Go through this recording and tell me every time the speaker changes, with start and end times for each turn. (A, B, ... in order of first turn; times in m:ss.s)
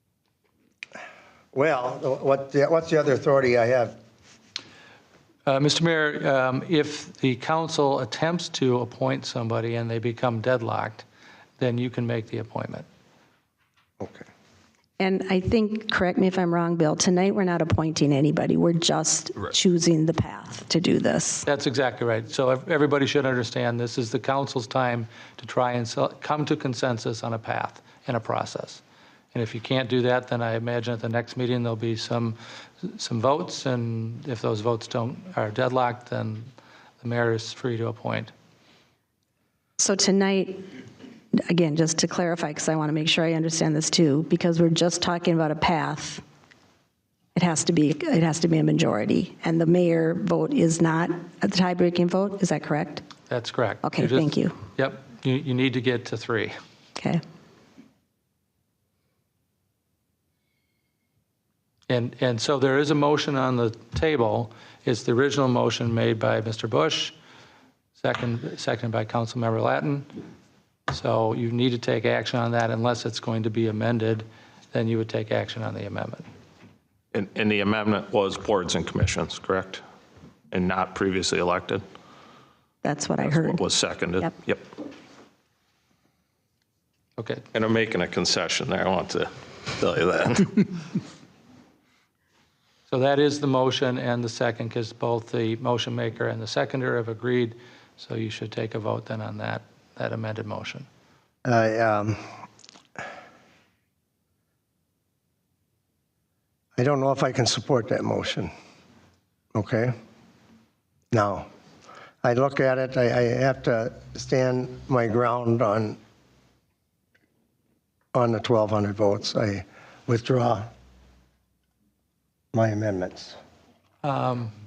0:01.5-0:04.0 A
0:05.5-0:11.0 B
0:11.6-0:12.9 B
0:14.0-0:14.2 A
0:15.0-0:21.5 C
0:21.5-0:28.8 B
0:29.3-0:36.5 B
0:37.0-0:38.3 B
0:39.8-0:40.7 C
0:41.5-0:46.2 C
0:47.4-0:53.0 C
0:53.3-0:56.5 B
0:53.8-0:54.6 C
1:01.9-1:07.2 B
1:08.0-1:10.2 B
1:10.9-1:16.2 B
1:17.1-1:19.8 D
1:20.5-1:21.8 D
1:22.8-1:23.6 C
1:23.2-1:24.6 D
1:27.2-1:27.4 B
1:27.5-1:30.7 D
1:32.9-1:40.9 B
1:41.4-1:42.2 A
1:46.8-1:48.5 A
1:49.5-1:49.9 A
1:51.1-1:51.5 A
1:52.2-1:56.0 A
1:58.1-2:00.7 A
2:02.5-2:03.4 A
2:04.0-2:04.5 B